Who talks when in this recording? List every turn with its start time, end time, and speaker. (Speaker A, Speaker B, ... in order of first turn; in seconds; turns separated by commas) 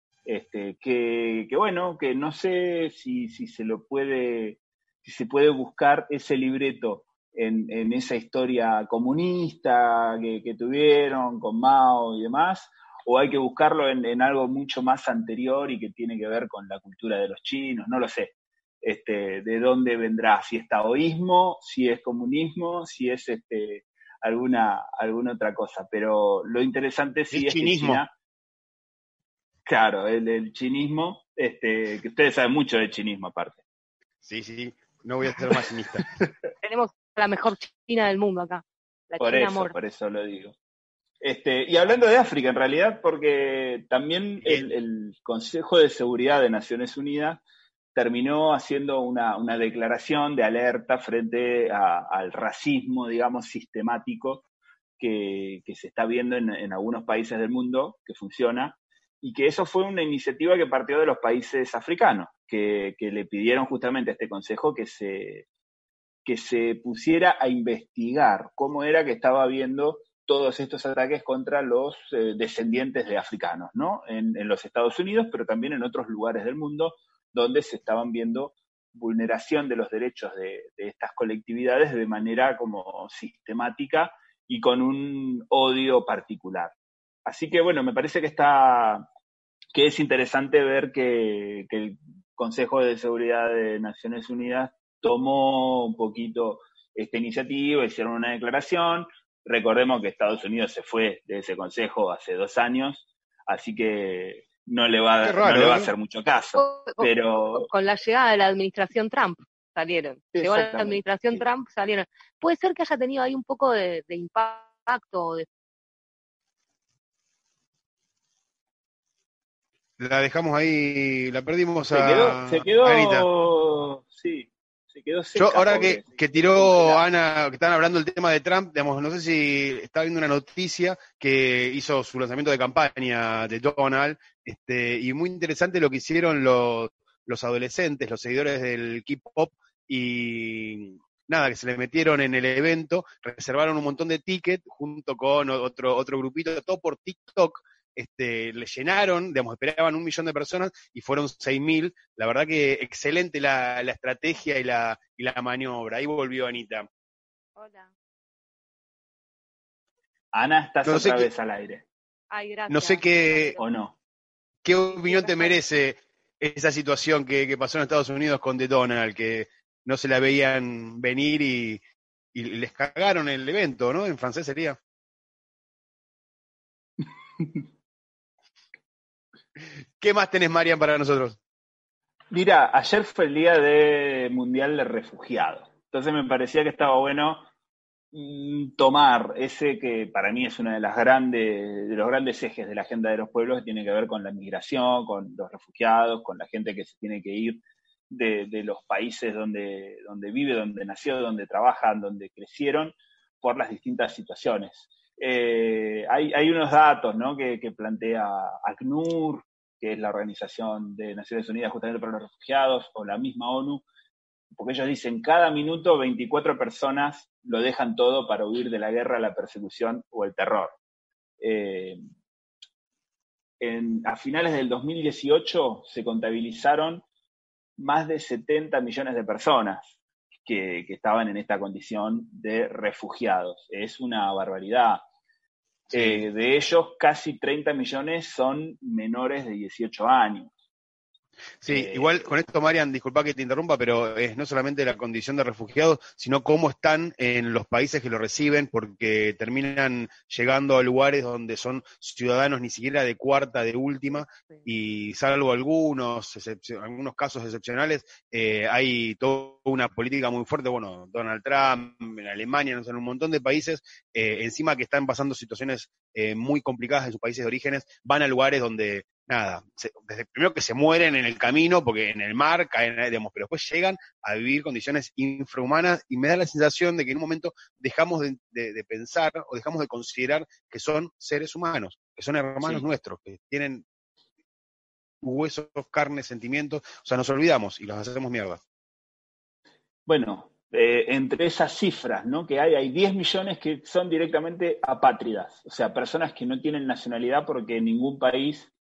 Speaker A: 0.2-28.1, Speaker B: 27.3-28.0, Speaker A: 29.6-33.6, Speaker B: 34.2-36.1, Speaker C: 36.6-39.8, Speaker A: 39.2-40.5, Speaker A: 41.2-47.4, Speaker B: 44.4-44.7, Speaker A: 47.9-54.4, Speaker A: 55.0-65.5, Speaker A: 66.2-86.8, Speaker A: 87.2-89.1, Speaker A: 89.7-107.7, Speaker B: 105.2-105.9, Speaker C: 106.5-115.5, Speaker A: 110.3-111.5, Speaker B: 120.0-123.2, Speaker A: 121.9-127.0, Speaker B: 125.3-156.9, Speaker C: 157.6-157.9, Speaker A: 160.3-161.9, Speaker B: 160.8-161.3, Speaker C: 162.3-163.6, Speaker B: 162.7-163.5, Speaker A: 163.6-163.9, Speaker B: 164.6-171.8, Speaker C: 164.9-165.6, Speaker B: 172.3-174.8, Speaker B: 180.0-181.4, Speaker A: 182.3-187.4, Speaker A: 188.1-213.8, Speaker A: 214.5-220.8, Speaker A: 221.4-222.0, Speaker A: 223.6-227.0, Speaker A: 227.8-235.0, Speaker B: 235.9-236.2, Speaker A: 235.9-240.5, Speaker B: 241.6-283.9, Speaker A: 241.7-242.1, Speaker A: 282.6-282.9, Speaker B: 285.2-288.6, Speaker A: 290.1-298.7